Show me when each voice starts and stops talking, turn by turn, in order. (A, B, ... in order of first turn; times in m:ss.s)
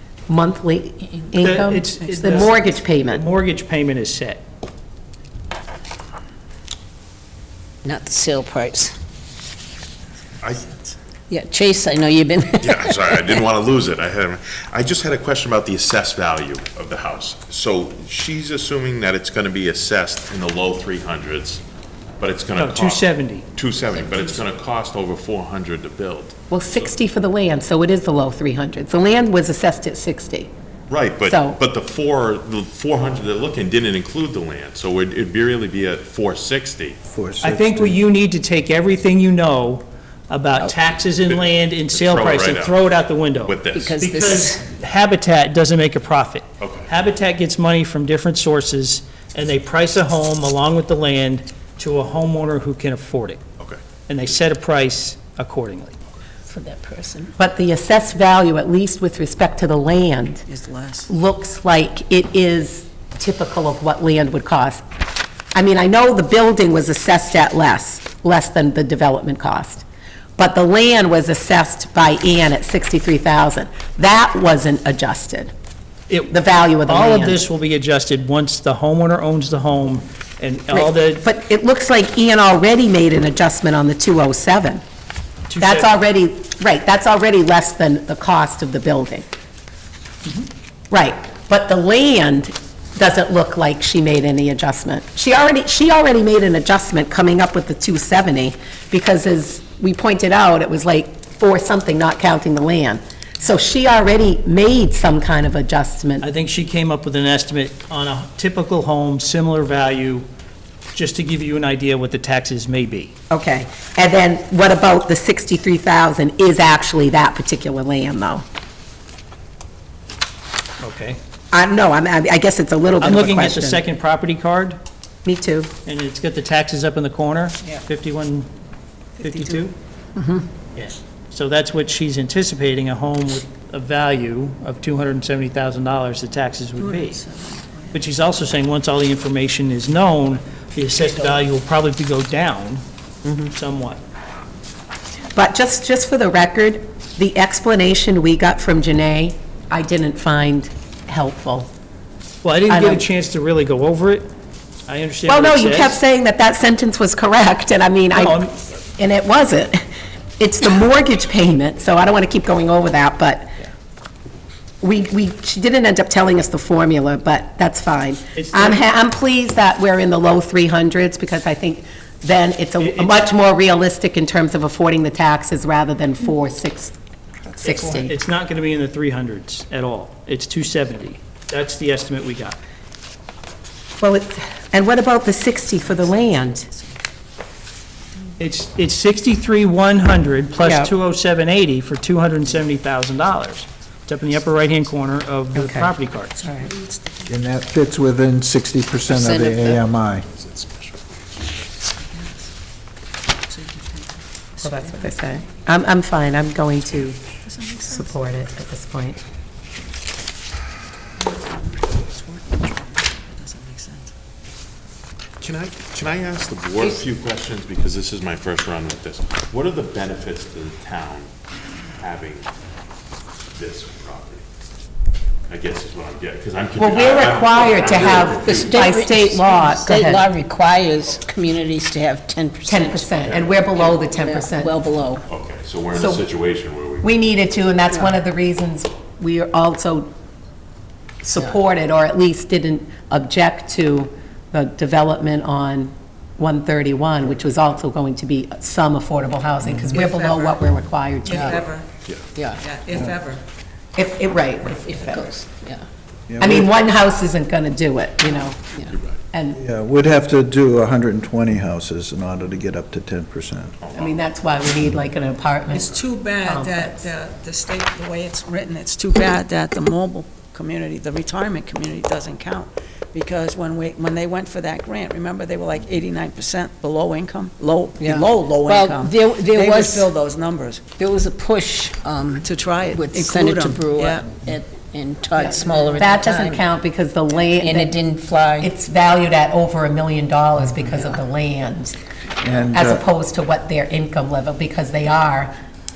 0:00.3-0:03.2 A
0:01.4-0:04.4 B
0:07.8-0:08.9 C
0:11.3-0:13.4 C
0:12.6-0:21.6 D
0:22.2-0:26.9 D
0:22.6-0:23.5 B
0:26.5-0:30.5 A
0:30.9-0:37.0 D
0:31.2-0:31.6 A
0:37.1-0:38.0 E
0:37.4-0:53.4 B
0:41.2-0:42.8 D
0:43.4-0:44.0 D
0:43.7-0:44.6 C
0:46.6-0:46.9 D
0:54.1-0:55.9 B
0:56.5-0:57.3 C
0:57.4-1:00.4 A
1:00.4-1:01.1 F
1:01.1-1:04.8 A
1:05.5-1:09.8 A
1:10.4-1:15.5 A
1:16.1-1:21.2 B
1:16.3-1:17.4 A
1:20.7-1:24.8 A
1:25.5-1:25.9 B
1:25.6-1:29.2 A
1:30.9-1:46.2 A
1:46.2-1:50.3 B
1:50.9-1:53.1 B
1:53.3-1:58.4 A
2:00.8-2:01.2 B
2:01.5-2:03.8 A
2:03.0-2:04.8 B
2:05.2-2:05.7 A
2:05.8-2:08.5 B
2:09.2-2:09.7 B
2:09.2-2:09.6 F
2:10.8-2:17.2 B
2:16.8-2:18.0 F
2:17.9-2:22.8 B
2:23.5-2:24.0 B
2:25.3-2:31.7 A
2:32.4-2:34.3 B
2:32.7-2:33.0 A
2:34.9-2:36.0 B
2:35.3-2:38.4 A
2:38.1-2:38.5 B
2:39.0-2:39.8 A
2:40.4-2:43.6 A
2:44.8-2:57.0 A
2:48.3-2:48.8 B
2:52.8-2:53.2 B
2:57.6-2:58.1 A
2:57.6-3:02.6 B
3:04.0-3:06.6 A
3:05.7-3:07.0 F
3:08.4-3:16.4 B
3:10.6-3:10.9 A
3:15.5-3:16.7 A
3:16.4-3:17.3 F
3:17.3-3:20.2 E
3:19.1-3:19.8 C
3:21.9-3:22.5 F
3:23.5-3:25.3 F
3:24.6-3:27.2 A
3:27.4-3:28.2 F
3:27.9-3:29.2 A
3:31.2-3:34.1 F
3:35.4-3:41.3 D
3:42.0-3:42.5 D
3:43.5-3:44.4 D
3:45.5-3:49.0 D
3:46.8-3:50.2 A
3:48.4-3:53.2 C
3:52.7-3:54.8 A
3:53.2-3:53.5 D
3:53.7-3:55.2 C
3:55.3-3:57.1 D
3:55.9-3:56.2 A
3:57.0-4:00.1 A
4:01.2-4:11.6 A
4:09.8-4:10.6 F
4:11.2-4:11.9 F
4:12.3-4:12.6 C
4:12.6-4:13.4 F
4:14.0-4:15.3 A
4:14.8-4:15.8 C
4:16.3-4:16.7 E
4:16.4-4:18.6 A
4:19.3-4:19.6 A
4:19.5-4:23.8 E
4:23.8-4:24.2 D
4:23.9-4:27.0 A
4:25.7-4:40.9 F
4:38.0-4:40.1 C
4:41.0-4:46.6 C
4:42.4-4:44.3 F
4:46.0-4:47.9 A
4:47.6-4:48.7 C
4:48.6-4:51.9 A
4:52.4-4:53.0 E
4:52.7-4:55.6 A